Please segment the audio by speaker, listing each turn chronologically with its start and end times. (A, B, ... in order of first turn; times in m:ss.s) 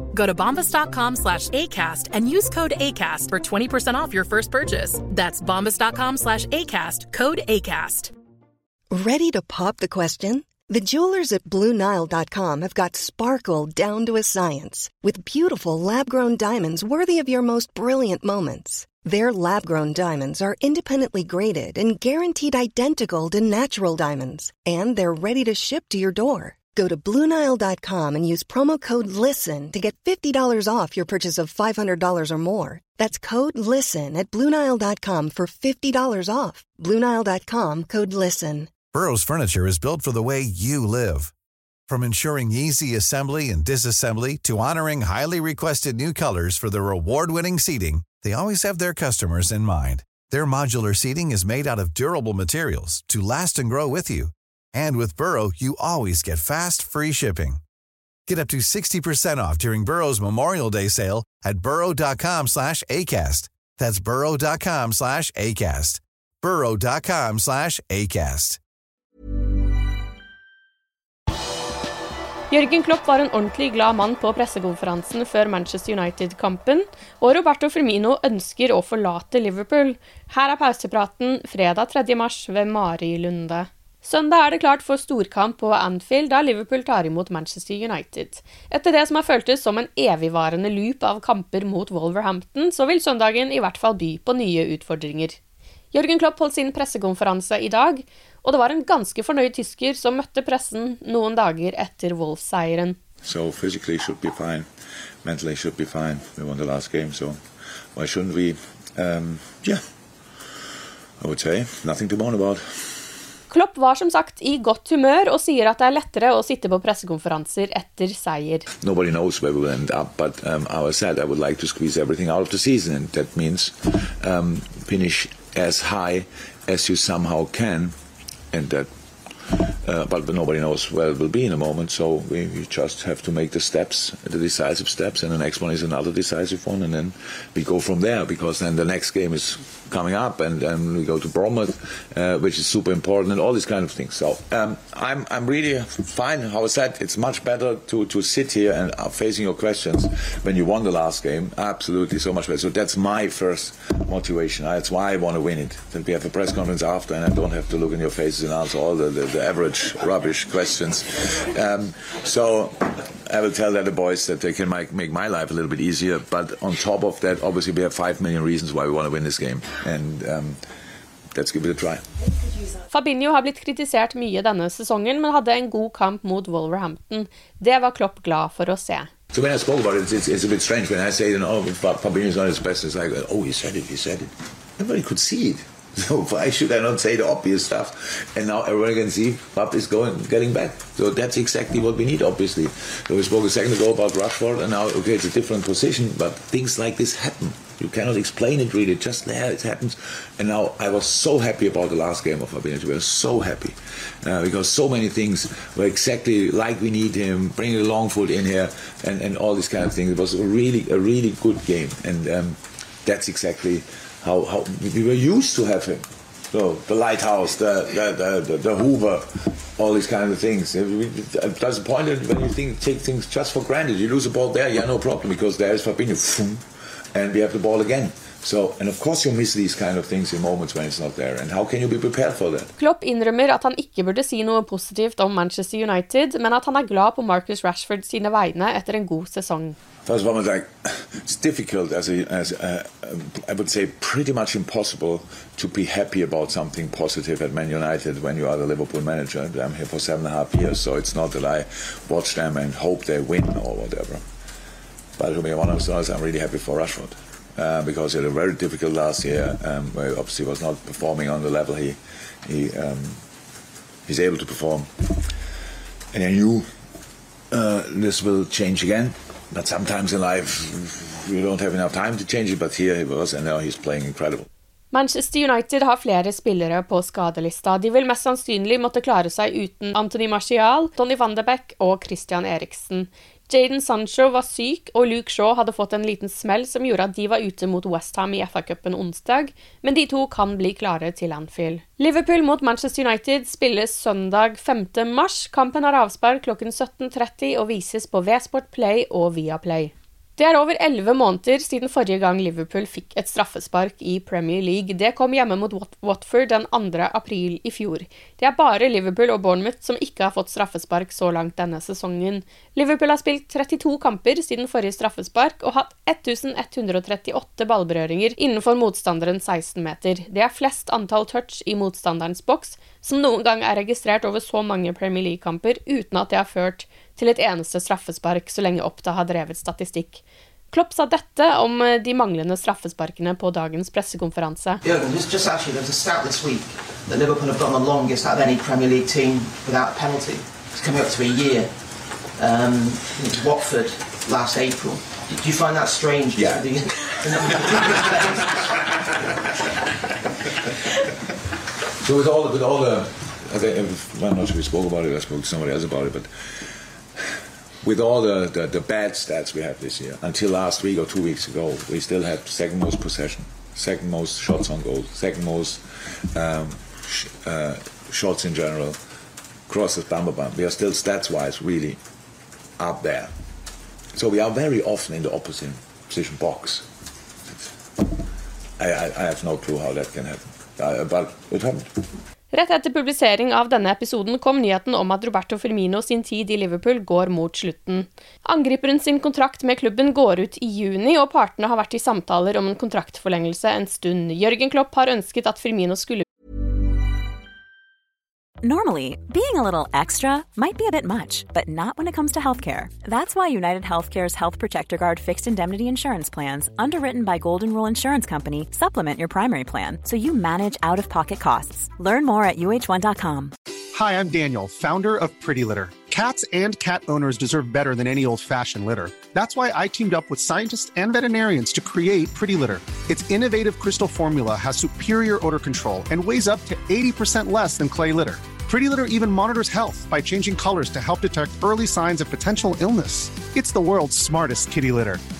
0:00.1-0:08.1 A
0:08.9-0:38.7 B
0:38.9-0:41.3 C
0:41.9-0:57.6 C
0:58.3-1:08.6 C
1:12.5-1:35.4 D
1:35.9-1:43.0 D
1:43.2-1:44.7 E
1:45.2-1:47.4 E
1:47.9-1:49.8 E
1:51.2-1:52.6 E
1:53.5-1:58.7 D
1:58.8-2:07.9 E
2:08.5-2:08.9 E
2:09.5-2:50.6 E
2:51.3-2:52.0 E
2:52.9-2:59.1 D
2:59.3-3:46.6 E
3:47.1-3:52.7 E
3:52.8-3:59.8 D
4:00.0-4:14.2 E
4:15.2-4:23.2 E
4:24.1-4:25.1 E
4:26.1-4:26.6 E
4:27.5-4:34.5 E
4:34.9-5:34.8 D
5:34.8-5:41.8 F
5:42.4-5:48.6 F
5:52.0-5:56.3 E
5:57.8-6:05.8 E
6:06.3-6:09.0 E
6:09.7-6:12.0 E
6:12.8-6:13.3 E
6:14.1-6:16.9 E
6:17.5-6:18.0 E
6:18.8-6:21.9 E
6:22.5-6:36.2 D
6:38.6-6:53.5 G
6:53.9-7:15.2 H